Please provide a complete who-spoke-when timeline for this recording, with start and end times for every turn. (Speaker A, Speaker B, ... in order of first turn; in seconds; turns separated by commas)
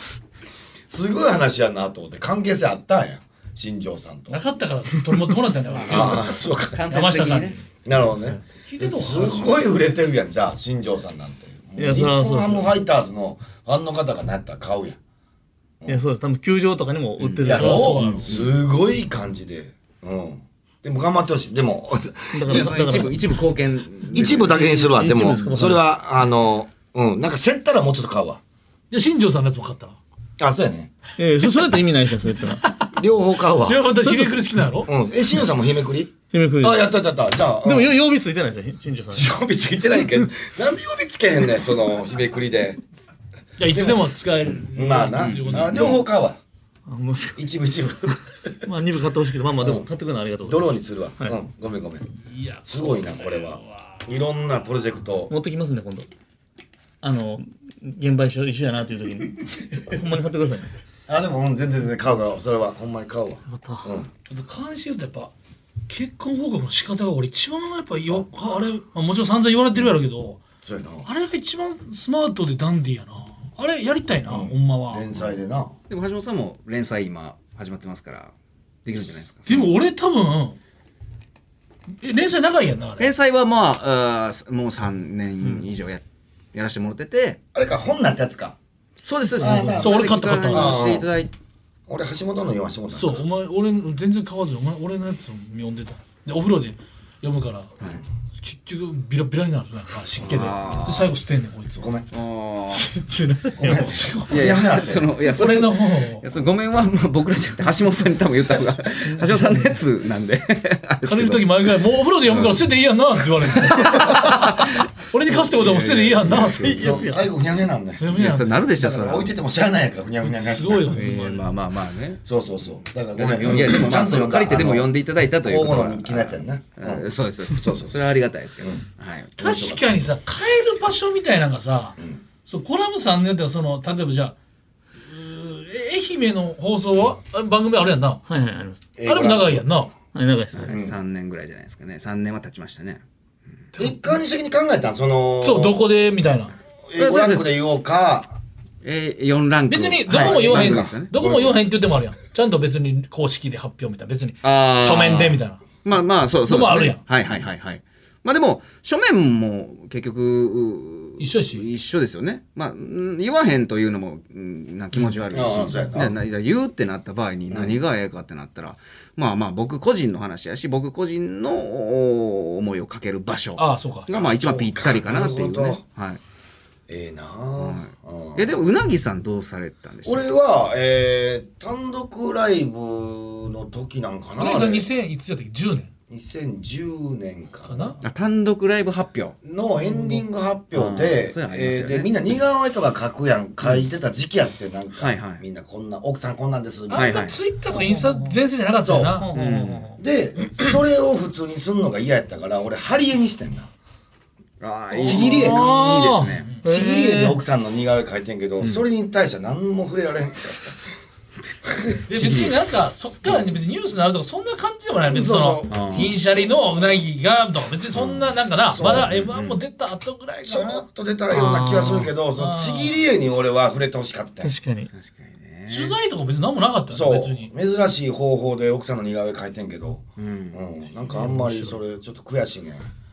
Speaker A: 0.9-4.4, Speaker B: 4.3-6.2, Speaker A: 5.8-6.8, Speaker C: 5.9-6.2, Speaker C: 6.7-7.6, Speaker B: 6.9-7.7, Speaker A: 7.8-15.0, Speaker B: 8.2-9.6, Speaker D: 11.8-12.7, Speaker D: 15.9-18.3, Speaker C: 17.2-17.5, Speaker A: 17.4-23.2, Speaker B: 17.5-18.4, Speaker D: 22.3-23.2, Speaker C: 22.5-25.2, Speaker A: 24.1-28.4, Speaker D: 24.2-25.9, Speaker B: 28.9-30.0, Speaker A: 30.4-30.9, Speaker D: 31.2-32.6, Speaker B: 32.5-33.0, Speaker A: 32.9-34.0, Speaker B: 33.6-34.9, Speaker A: 34.9-38.0, Speaker D: 36.3-36.9, Speaker D: 37.6-39.3, Speaker A: 39.1-42.8, Speaker B: 43.6-46.0, Speaker A: 43.7-44.1, Speaker A: 44.7-46.4, Speaker C: 45.2-45.9, Speaker D: 46.9-47.5, Speaker A: 47.4-48.6, Speaker D: 48.6-51.4, Speaker A: 49.6-49.9, Speaker A: 50.4-52.1, Speaker B: 52.3-54.1, Speaker A: 52.7-55.3, Speaker D: 55.3-56.1, Speaker D: 57.0-60.7, Speaker A: 61.1-64.1, Speaker D: 63.5-63.9, Speaker B: 64.3-65.3, Speaker B: 65.9-70.4, Speaker A: 70.6-71.1, Speaker B: 71.0-75.1, Speaker A: 74.3-75.8, Speaker C: 75.9-78.3, Speaker C: 78.8-79.7, Speaker B: 79.5-80.6, Speaker B: 82.0-83.1, Speaker C: 83.0-86.0, Speaker C: 86.5-87.4, Speaker A: 87.5-88.6, Speaker C: 89.0-91.3, Speaker A: 89.4-91.1, Speaker B: 89.4-91.0, Speaker A: 91.9-93.2, Speaker B: 92.9-97.7, Speaker B: 98.4-101.9, Speaker C: 100.2-101.1, Speaker A: 101.8-102.1, Speaker C: 102.1-102.9, Speaker D: 102.9-103.9, Speaker B: 103.5-104.6, Speaker A: 103.6-105.1, Speaker C: 104.3-111.5, Speaker B: 105.3-106.2, Speaker D: 109.1-109.8, Speaker B: 111.0-117.1, Speaker C: 112.3-112.6, Speaker C: 113.7-114.7, Speaker C: 115.4-116.5, Speaker A: 116.2-118.1, Speaker D: 116.6-117.3, Speaker B: 118.0-118.6, Speaker C: 118.1-119.3, Speaker A: 118.7-121.0, Speaker B: 120.2-121.5, Speaker C: 120.9-122.2, Speaker A: 122.2-128.0, Speaker C: 123.2-129.7, Speaker A: 129.4-129.8, Speaker B: 129.4-134.3, Speaker B: 135.0-138.2, Speaker D: 138.3-138.8, Speaker A: 139.0-139.8, Speaker B: 139.1-139.9, Speaker D: 140.1-140.7, Speaker C: 140.5-143.0, Speaker A: 140.7-141.0, Speaker B: 143.7-144.2, Speaker A: 143.8-145.8, Speaker B: 145.4-146.6, Speaker A: 146.9-148.4, Speaker C: 147.0-147.5, Speaker C: 148.8-151.1, Speaker B: 149.7-155.6, Speaker A: 150.1-151.6, Speaker C: 154.4-176.2, Speaker B: 156.5-157.0, Speaker B: 161.2-161.7, Speaker A: 165.3-166.2, Speaker A: 167.5-167.8, Speaker B: 173.6-174.1, Speaker A: 174.1-175.8, Speaker A: 176.9-178.5, Speaker C: 177.6-180.3, Speaker A: 180.1-184.9, Speaker B: 184.4-185.9, Speaker A: 186.1-188.0, Speaker B: 187.7-188.0, Speaker C: 188.0-189.4, Speaker A: 189.4-197.1, Speaker D: 189.9-190.2, Speaker C: 190.7-192.1, Speaker C: 195.0-195.4, Speaker B: 196.9-199.3, Speaker C: 196.9-197.4, Speaker D: 197.7-198.4, Speaker A: 198.8-199.3, Speaker D: 199.2-200.0, Speaker C: 199.3-199.9, Speaker A: 200.0-203.7, Speaker C: 204.6-206.5, Speaker A: 205.0-205.7, Speaker D: 205.0-207.4, Speaker B: 206.4-206.6, Speaker A: 206.6-210.9, Speaker A: 211.7-212.2, Speaker B: 212.1-220.8, Speaker C: 212.2-212.5, Speaker A: 215.0-216.6, Speaker C: 215.7-216.1, Speaker A: 218.7-219.1, Speaker C: 219.0-219.6, Speaker A: 220.5-224.6, Speaker D: 221.3-222.1, Speaker B: 222.4-223.0, Speaker D: 224.4-224.9, Speaker C: 224.9-226.0, Speaker B: 225.7-227.5, Speaker A: 226.9-232.9, Speaker C: 230.2-230.6, Speaker D: 231.1-231.8